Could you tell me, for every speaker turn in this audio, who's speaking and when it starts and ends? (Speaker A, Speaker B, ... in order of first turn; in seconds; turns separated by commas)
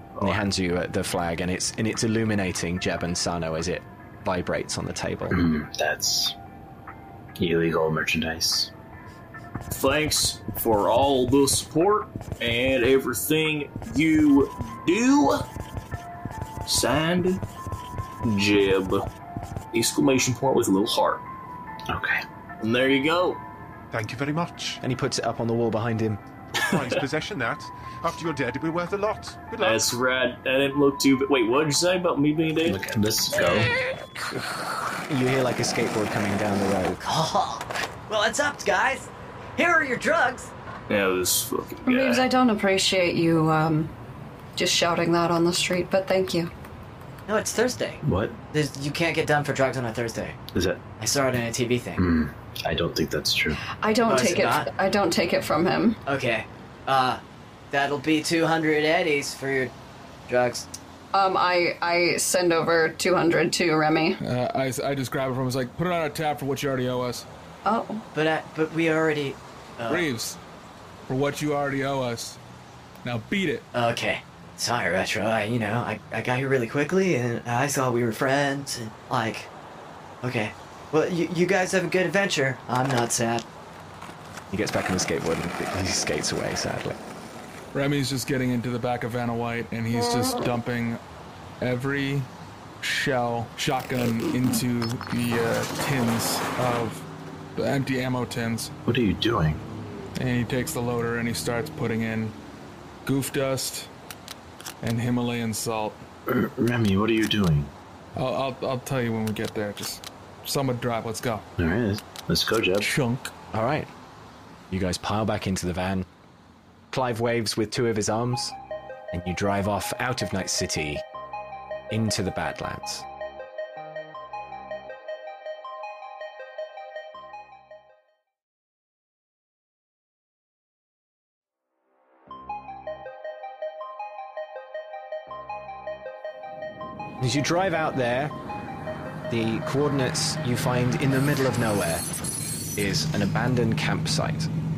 Speaker A: 0.2-0.4, Speaker B: 0.2-5.4, Speaker A: 5.3-6.3, Speaker A: 7.4-8.7, Speaker C: 9.7-15.4, Speaker C: 16.7-17.4, Speaker C: 18.2-19.1, Speaker C: 19.7-21.2, Speaker A: 21.9-22.2, Speaker C: 22.6-23.4, Speaker D: 23.9-24.8, Speaker B: 24.8-26.2, Speaker D: 26.6-29.9, Speaker C: 29.6-32.8, Speaker A: 32.6-33.7, Speaker B: 34.3-37.0, Speaker E: 37.0-40.5, Speaker C: 40.9-42.3, Speaker F: 41.9-43.9, Speaker F: 44.6-46.5, Speaker E: 47.3-50.4, Speaker A: 48.0-48.4, Speaker A: 50.5-50.8, Speaker E: 51.0-52.0, Speaker A: 52.0-53.6, Speaker F: 53.7-56.0, Speaker E: 54.0-54.7, Speaker E: 56.1-59.7, Speaker E: 60.3-60.7, Speaker F: 61.1-64.2, Speaker G: 64.2-67.3, Speaker F: 67.7-68.0, Speaker E: 68.1-70.1, Speaker G: 69.9-70.4, Speaker G: 71.1-72.4, Speaker G: 73.0-73.7, Speaker E: 73.7-79.5, Speaker E: 80.2-83.5, Speaker B: 84.5-87.0, Speaker G: 87.7-91.0, Speaker G: 91.6-92.3, Speaker G: 92.8-98.7, Speaker A: 98.9-99.6, Speaker G: 100.2-102.4, Speaker G: 103.0-103.9, Speaker G: 104.8-106.0, Speaker A: 106.3-107.7, Speaker G: 108.2-111.5, Speaker A: 111.6-112.9, Speaker G: 112.8-113.3, Speaker B: 113.5-113.9, Speaker B: 114.7-116.1, Speaker B: 116.9-118.5, Speaker B: 119.1-121.0, Speaker B: 121.9-123.0, Speaker B: 137.2-138.3, Speaker B: 139.3-142.1, Speaker B: 142.8-144.5